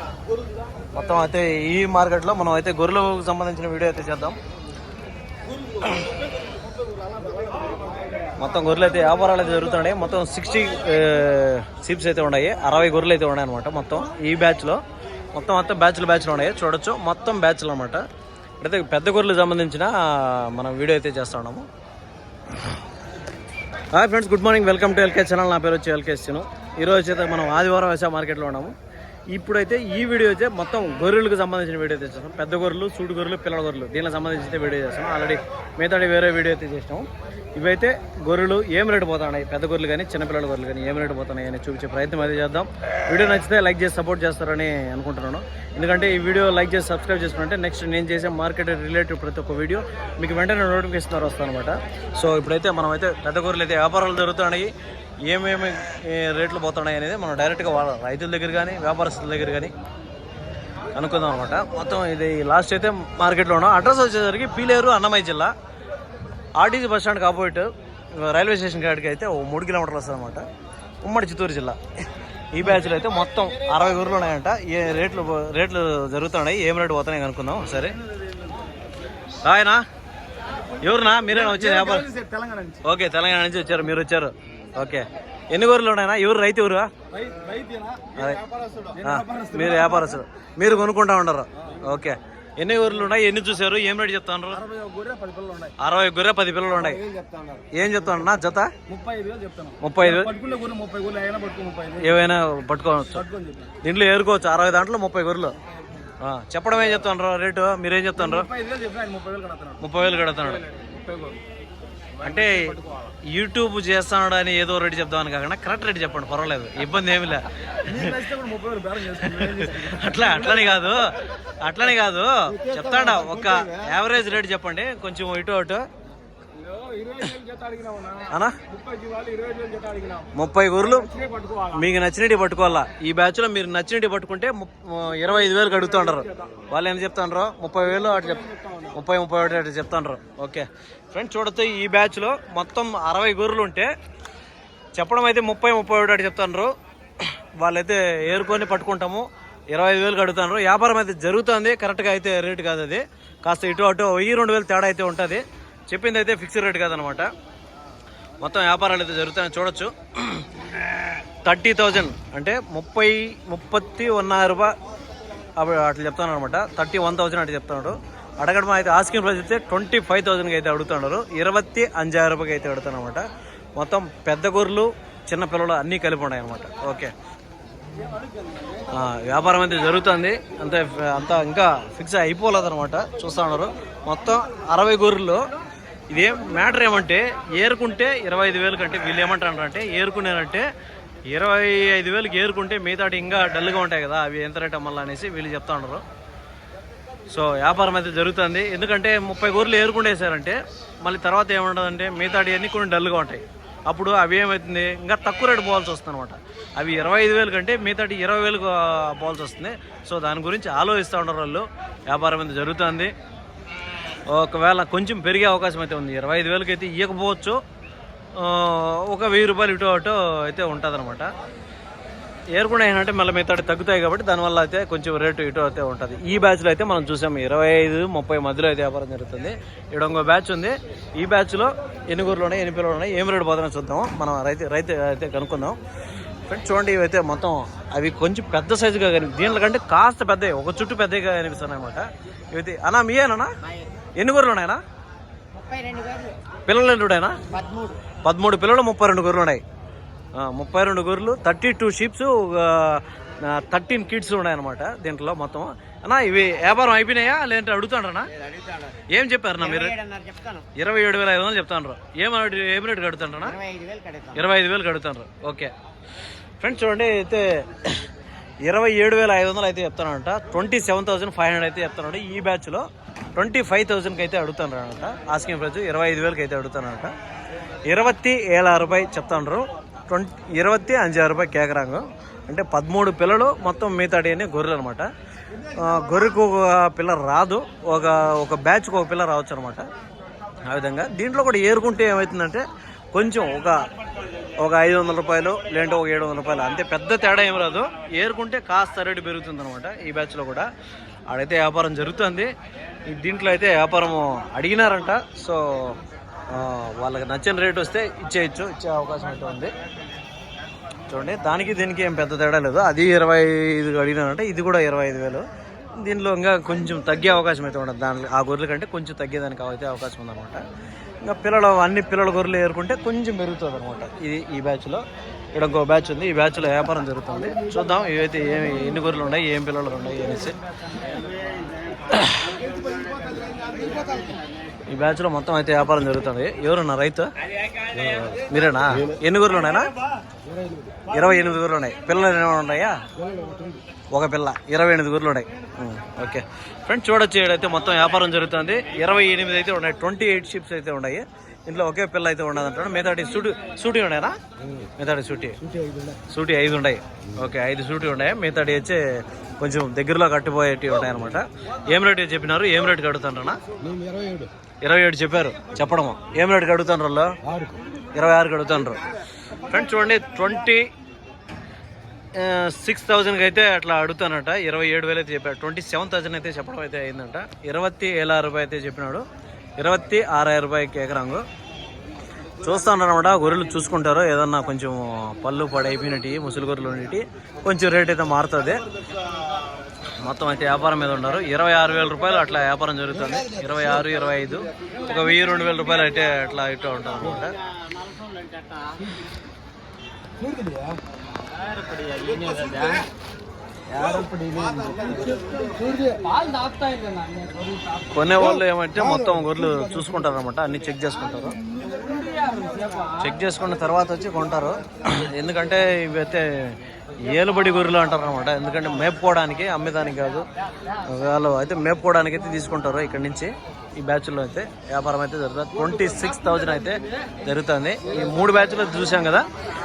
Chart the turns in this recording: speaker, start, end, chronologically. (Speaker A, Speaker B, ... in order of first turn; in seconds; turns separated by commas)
Speaker A: 0.9-4.4, Speaker A: 8.4-14.8, Speaker A: 15.3-18.0, Speaker A: 18.6-21.6, Speaker A: 23.9-28.7, Speaker A: 29.3-54.7, Speaker A: 55.2-59.7, Speaker A: 60.9-65.5, Speaker A: 66.6-70.4, Speaker A: 71.0-71.8, Speaker A: 72.5-78.0, Speaker A: 79.4-79.8, Speaker A: 80.8-82.1, Speaker B: 81.5-82.8, Speaker A: 82.8-86.9, Speaker B: 87.2-88.1, Speaker A: 88.1-88.4, Speaker B: 88.8-89.7, Speaker A: 89.0-94.7, Speaker B: 94.7-95.7, Speaker A: 95.8-97.0, Speaker B: 97.0-97.7, Speaker A: 97.7-98.7, Speaker B: 98.9-102.0, Speaker A: 99.8-100.3, Speaker A: 101.9-103.2, Speaker B: 103.2-103.7, Speaker A: 103.8-105.5, Speaker A: 106.2-108.5, Speaker B: 108.5-109.8, Speaker A: 109.8-110.7, Speaker B: 110.7-111.4, Speaker A: 112.2-118.3, Speaker B: 112.4-112.9, Speaker B: 117.9-120.1, Speaker A: 119.1-125.8, Speaker B: 126.6-130.3, Speaker A: 128.2-128.6, Speaker A: 130.3-131.1, Speaker B: 131.1-131.7, Speaker A: 131.7-143.9, Speaker A: 145.0-157.3, Speaker A: 158.4-160.5, Speaker A: 161.4-164.7, Speaker A: 165.6-173.2, Speaker A: 173.8-177.1, Speaker A: 178.9-185.4, Speaker A: 186.1-190.7, Speaker A: 191.3-196.0, Speaker A: 197.3-213.1, Speaker A: 214.3-217.6, Speaker A: 218.3-221.3, Speaker A: 222.5-235.8, Speaker A: 236.5-243.5, Speaker A: 244.2-244.8, Speaker C: 245.6-246.3, Speaker A: 246.7-247.4, Speaker C: 247.5-247.9, Speaker A: 248.2-249.6, Speaker A: 250.4-258.3, Speaker C: 258.5-258.9, Speaker A: 259.1-259.9, Speaker C: 259.6-260.7, Speaker A: 260.7-263.6, Speaker C: 263.5-264.4, Speaker A: 264.3-265.7, Speaker A: 266.6-268.1, Speaker A: 268.7-277.1, Speaker A: 277.9-285.1, Speaker A: 285.7-289.9, Speaker A: 290.7-293.8, Speaker A: 294.6-300.7, Speaker A: 301.3-302.5, Speaker A: 303.1-309.7, Speaker A: 311.1-315.4, Speaker A: 316.0-320.6, Speaker A: 321.2-325.0, Speaker A: 325.5-330.6, Speaker A: 332.1-332.5, Speaker B: 333.6-334.2, Speaker A: 334.9-337.3, Speaker A: 338.0-339.9, Speaker A: 341.1-343.0, Speaker A: 344.1-355.6, Speaker A: 356.3-363.6, Speaker A: 364.8-367.4, Speaker A: 368.1-369.0, Speaker A: 369.7-370.9, Speaker A: 372.3-379.2, Speaker A: 379.8-381.4, Speaker A: 382.6-388.8, Speaker A: 390.2-397.6, Speaker C: 398.5-399.0, Speaker B: 400.5-400.9, Speaker C: 401.8-403.1, Speaker C: 403.9-405.4, Speaker B: 404.8-405.1, Speaker B: 405.8-407.3, Speaker A: 408.0-411.5, Speaker B: 412.4-412.8, Speaker A: 413.2-420.5, Speaker A: 421.0-429.4